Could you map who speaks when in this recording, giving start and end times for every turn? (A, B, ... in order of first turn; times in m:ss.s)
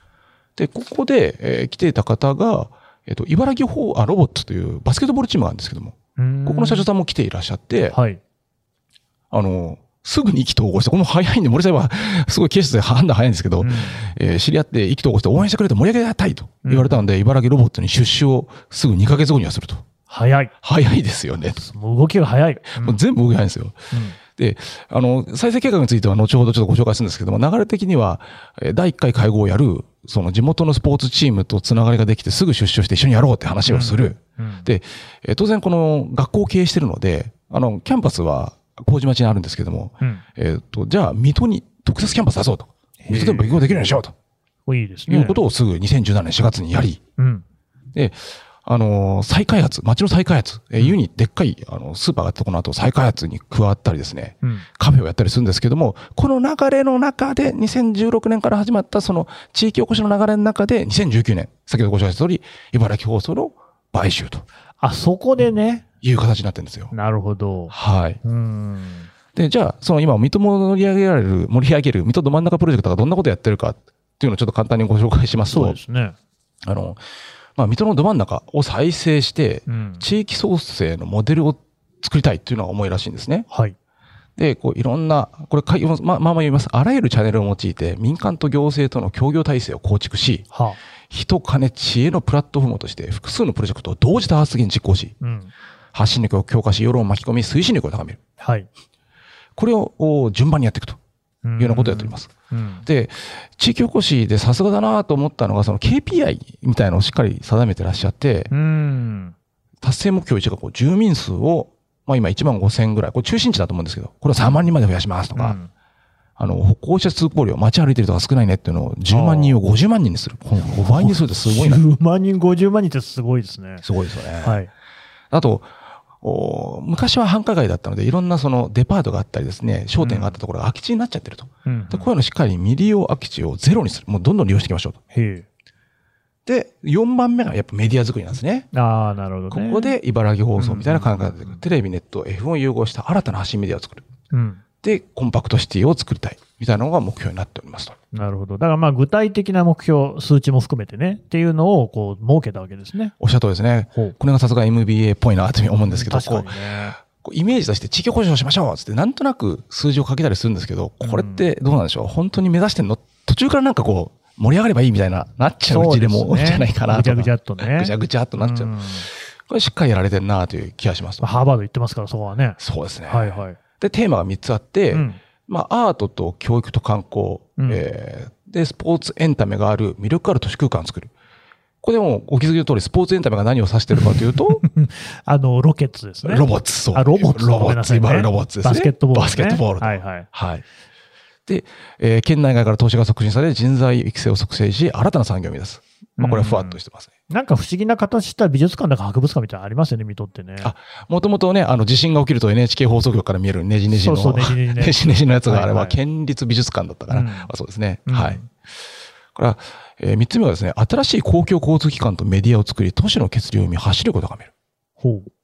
0:00.6-0:08.0 A
0:06.2-0:06.9 B
0:07.9-0:08.2 B
0:09.3-0:19.8 A
0:13.6-0:14.1 B
0:16.6-0:17.1 B
0:20.1-0:20.5 B
0:20.6-0:21.6 A
0:21.5-0:23.0 B
0:22.7-0:44.1 A
0:23.9-0:24.2 B
0:33.7-0:34.7 B
0:43.0-0:43.9 B
0:44.6-0:45.4 B
0:45.1-0:47.0 A
0:47.2-0:47.4 B
0:47.9-1:04.4 A
1:04.8-1:05.8 B
1:06.0-1:06.9 A
1:06.9-1:09.1 B
1:07.7-1:08.2 A
1:09.3-1:15.8 A
1:15.5-1:16.2 B
1:16.6-1:17.0 A
1:17.6-1:23.5 A
1:19.7-1:20.0 B
1:23.5-1:23.8 B
1:24.4-1:30.5 A
1:30.5-1:30.8 B
1:31.1-1:35.2 A
1:35.2-1:35.5 B
1:35.9-1:38.2 A
1:38.4-1:38.7 B
1:39.6-1:41.0 A
1:41.4-1:42.8 B
1:41.6-1:42.3 A
1:42.8-1:48.5 A
1:48.5-1:49.4 B
1:49.8-1:55.6 A
1:55.4-1:55.7 B
1:56.4-2:01.8 A
1:59.1-1:59.6 B
2:00.6-2:03.8 B
2:03.8-2:04.6 A
2:04.4-2:04.7 B
2:05.3-2:15.0 A
2:10.0-2:10.4 B
2:11.6-2:12.1 B
2:15.1-2:15.5 B
2:16.5-2:18.7 A
2:18.7-2:20.0 B
2:19.5-2:24.0 A
2:20.6-2:21.6 B
2:24.3-2:24.6 B
2:24.8-2:28.0 A
2:28.1-2:33.1 B
2:33.2-2:51.3 A
2:35.9-2:37.0 B
2:41.0-2:41.5 B
2:45.7-2:49.1 B
2:51.2-2:53.6 B
2:52.6-3:01.1 A
2:54.9-2:55.2 B
2:57.6-2:57.8 B
3:01.8-3:04.6 A
3:04.0-3:10.3 B
3:06.2-3:10.6 A
3:11.5-3:17.1 A
3:16.2-3:20.7 B
3:20.6-3:28.4 A
3:23.9-3:26.0 B
3:27.1-3:27.5 B
3:28.1-3:28.5 B
3:29.3-3:34.5 A
3:35.0-3:35.3 B